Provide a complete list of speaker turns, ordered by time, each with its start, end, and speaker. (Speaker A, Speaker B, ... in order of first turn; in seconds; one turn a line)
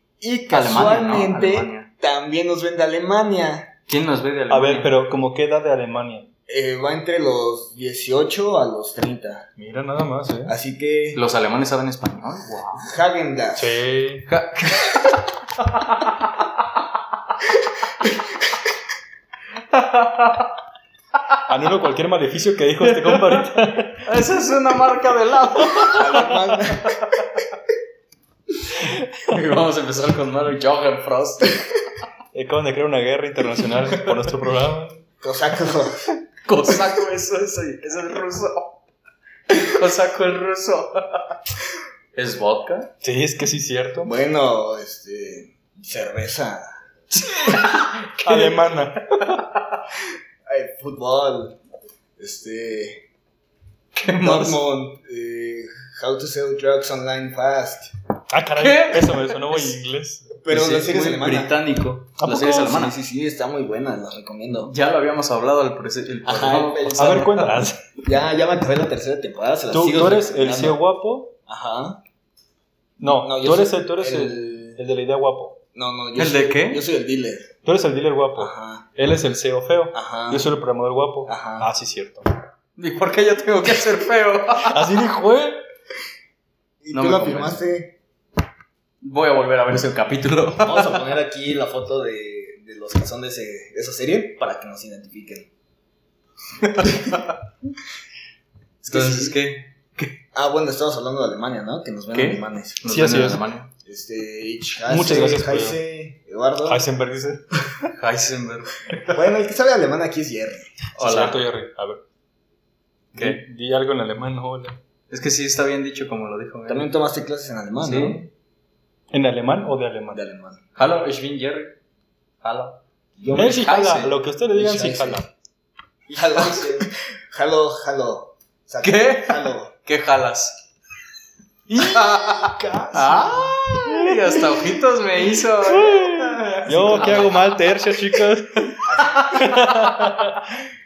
Speaker A: 0.2-3.7
Speaker B: 0.5-1.9
Speaker B: 3.9-4.9
Speaker C: 4.5-6.3
Speaker A: 6.5-9.5
Speaker C: 9.6-10.5
Speaker A: 10.5-11.2
Speaker B: 11.2-12.9
Speaker A: 12.8-13.8
Speaker C: 13.6-14.3
Speaker B: 14.3-16.4
Speaker B: 19.7-20.5
Speaker C: 21.5-24.1
Speaker B: 22.8-23.5
Speaker B: 24.0-27.4
Speaker A: 25.9-27.0
Speaker B: 29.2-31.6
Speaker C: 32.3-35.0
Speaker A: 35.2-36.1
Speaker B: 36.5-38.8
Speaker B: 39.5-41.4
Speaker B: 42.1-42.9
Speaker C: 43.0-44.1
Speaker A: 44.0-46.6
Speaker B: 47.1-48.6
Speaker C: 47.5-49.3
Speaker A: 50.5-51.6
Speaker A: 52.2-53.1
Speaker B: 54.0-54.6
Speaker A: 54.2-57.9
Speaker C: 58.3-60.4
Speaker B: 58.6-59.8
Speaker A: 60.4-61.5
Speaker B: 60.5-62.9
Speaker C: 62.2-62.8
Speaker A: 62.6-64.7
Speaker B: 64.7-67.5
Speaker A: 66.2-67.5
Speaker C: 67.0-67.8
Speaker A: 68.0-70.8
Speaker C: 69.7-71.3
Speaker A: 71.5-72.0
Speaker C: 73.0-75.6
Speaker A: 73.0-74.8
Speaker A: 75.8-77.5
Speaker B: 76.2-76.8
Speaker C: 77.7-82.3
Speaker A: 78.4-78.9
Speaker A: 79.9-80.5
Speaker A: 81.3-81.7
Speaker B: 82.8-84.9
Speaker C: 84.7-85.6
Speaker A: 86.8-88.0
Speaker B: 86.9-87.6
Speaker B: 89.0-91.0
Speaker A: 90.6-95.5
Speaker B: 96.6-97.3
Speaker A: 98.8-99.4
Speaker B: 98.8-100.1
Speaker A: 100.3-102.8
Speaker B: 102.1-103.7
Speaker C: 102.9-103.4
Speaker A: 103.8-106.8
Speaker C: 104.9-105.8
Speaker C: 106.7-107.9
Speaker B: 108.0-109.2
Speaker A: 109.1-110.7
Speaker C: 111.0-112.0
Speaker B: 111.0-111.4
Speaker B: 113.2-113.4
Speaker C: 113.2-114.8
Speaker B: 115.1-116.9
Speaker A: 116.7-118.2
Speaker B: 117.8-118.3
Speaker C: 119.1-120.2
Speaker A: 120.1-120.6
Speaker B: 120.8-121.8
Speaker B: 122.4-122.8
Speaker A: 123.2-125.2
Speaker C: 123.3-125.3
Speaker B: 123.6-124.1
Speaker A: 126.1-129.7
Speaker B: 126.4-126.7
Speaker B: 128.8-130.6
Speaker C: 131.7-132.6
Speaker A: 131.8-133.6
Speaker B: 131.8-137.4
Speaker C: 133.9-134.8
Speaker C: 135.6-140.6
Speaker A: 136.6-137.3
Speaker A: 138.8-139.6
Speaker B: 139.2-139.5